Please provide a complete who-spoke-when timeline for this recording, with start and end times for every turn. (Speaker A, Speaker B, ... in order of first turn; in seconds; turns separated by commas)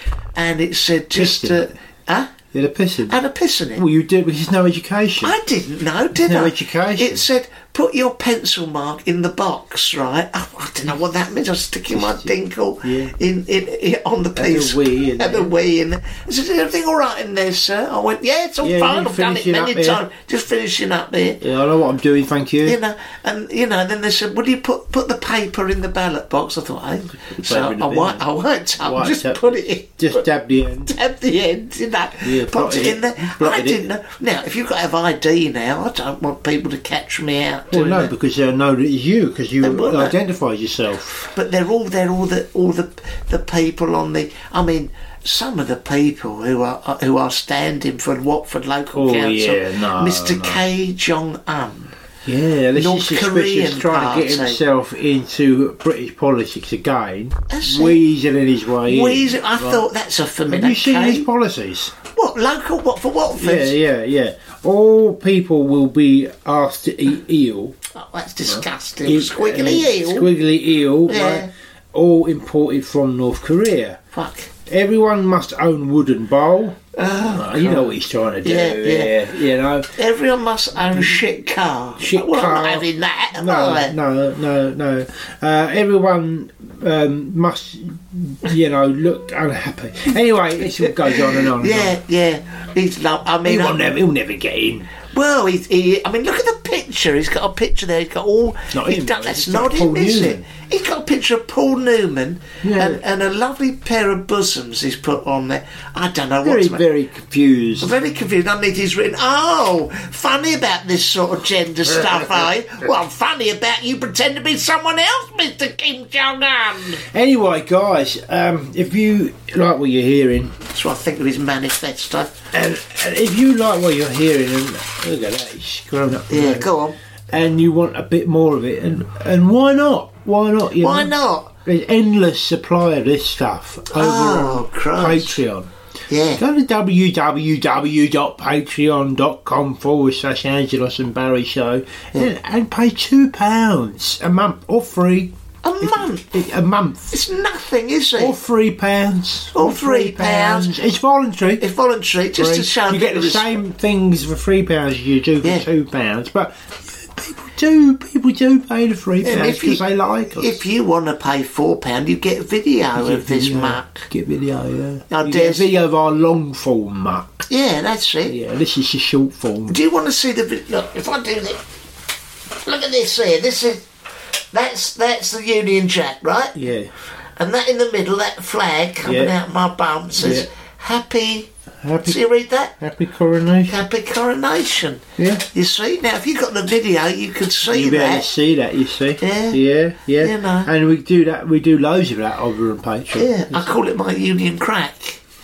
Speaker A: 0.4-2.3, Speaker B: 1.1-1.7, Speaker B: 2.5-3.2, Speaker A: 3.1-3.8, Speaker B: 3.7-5.4, Speaker A: 5.2-21.4, Speaker B: 6.2-7.2, Speaker B: 11.9-13.2, Speaker B: 14.3-15.6, Speaker B: 18.6-20.0, Speaker B: 21.4-22.8, Speaker A: 22.6-30.2, Speaker B: 27.3-28.3, Speaker B: 28.8-30.9, Speaker A: 30.9-38.1, Speaker B: 32.2-33.9, Speaker B: 37.7-41.3, Speaker A: 39.6-40.2, Speaker A: 41.3-52.0, Speaker B: 48.9-50.6, Speaker B: 52.2-59.9, Speaker A: 52.8-54.6, Speaker A: 57.5-58.0, Speaker A: 58.9-61.3, Speaker B: 60.5-61.9, Speaker A: 62.2-63.8, Speaker B: 63.4-67.8, Speaker A: 68.0-70.3, Speaker B: 68.5-74.0, Speaker A: 71.1-71.5, Speaker A: 74.1-74.5, Speaker B: 74.7-80.0, Speaker A: 77.0-79.2, Speaker A: 80.0-84.0, Speaker B: 80.9-81.2, Speaker B: 82.0-92.0, Speaker A: 91.1-93.8, Speaker B: 93.4-94.9, Speaker A: 95.1-106.8, Speaker B: 98.7-100.4, Speaker B: 102.6-103.0, Speaker B: 106.4-108.0, Speaker A: 107.8-117.0, Speaker B: 117.0-120.6, Speaker A: 120.7-122.4, Speaker B: 122.5-126.7, Speaker A: 126.3-127.0, Speaker B: 127.3-135.7, Speaker A: 130.8-131.5, Speaker A: 133.9-135.4, Speaker A: 136.1-136.4, Speaker B: 136.3-147.2, Speaker A: 145.6-146.3, Speaker A: 147.1-148.4, Speaker B: 148.2-151.7, Speaker A: 149.6-150.8, Speaker A: 151.6-153.6, Speaker B: 152.3-160.6, Speaker A: 159.2-164.1, Speaker B: 162.9-167.4, Speaker A: 165.1-165.7, Speaker A: 167.5-168.4, Speaker B: 168.2-169.8, Speaker A: 169.7-171.6, Speaker A: 172.6-173.8, Speaker A: 174.5-176.6, Speaker B: 176.5-176.9, Speaker A: 177.4-181.5, Speaker B: 179.0-179.4, Speaker B: 180.1-180.5, Speaker B: 181.8-182.2, Speaker A: 182.1-182.8, Speaker B: 182.8-183.8, Speaker A: 183.7-188.3, Speaker B: 185.2-185.5, Speaker B: 187.7-193.8, Speaker A: 189.2-189.6, Speaker A: 190.2-190.7, Speaker A: 193.2-195.2